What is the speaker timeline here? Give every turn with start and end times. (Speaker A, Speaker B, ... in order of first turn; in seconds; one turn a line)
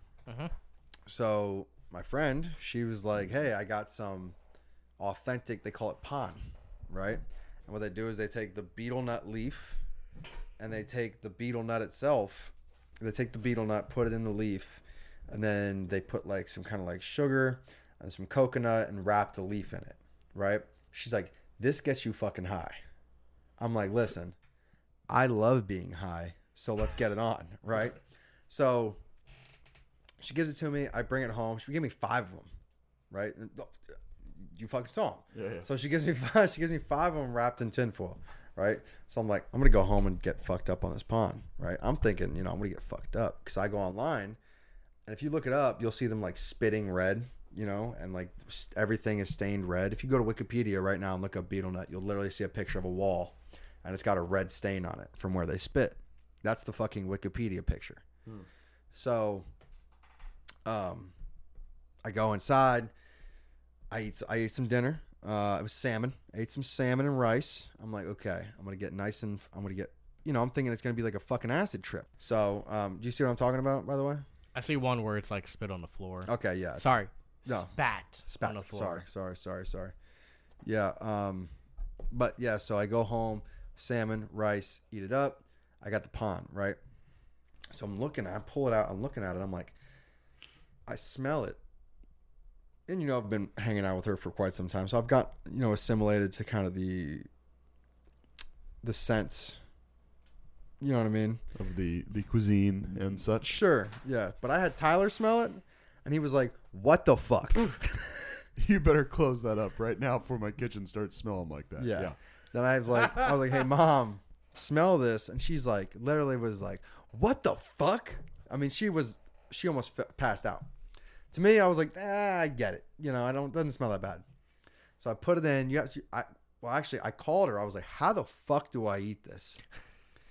Speaker A: 1.1-4.4
Speaker A: 5.0-9.8
Speaker A: 10.6-22.8
Speaker A: 23.6-24.3
Speaker A: 25.1-28.0
Speaker A: 28.5-29.0
Speaker A: 30.2-32.5
Speaker A: 33.1-33.8
Speaker A: 34.4-44.4
Speaker B: 35.3-35.6
Speaker A: 45.1-58.0
Speaker A: 58.9-59.5
Speaker A: 60.6-61.1
Speaker A: 62.0-62.9
Speaker A: 63.9-74.2
Speaker C: 74.5-79.0
Speaker A: 76.3-77.7
Speaker A: 78.3-79.9
Speaker A: 80.6-81.5
Speaker A: 82.1-86.8
Speaker A: 87.7-89.7
Speaker A: 90.9-91.6
Speaker A: 92.9-97.3
Speaker A: 98.8-99.5
Speaker A: 100.8-101.4
Speaker B: 101.5-103.6
Speaker A: 103.4-108.4
Speaker B: 108.6-112.1
Speaker A: 111.8-120.7
Speaker A: 121.3-124.2
Speaker A: 125.0-129.6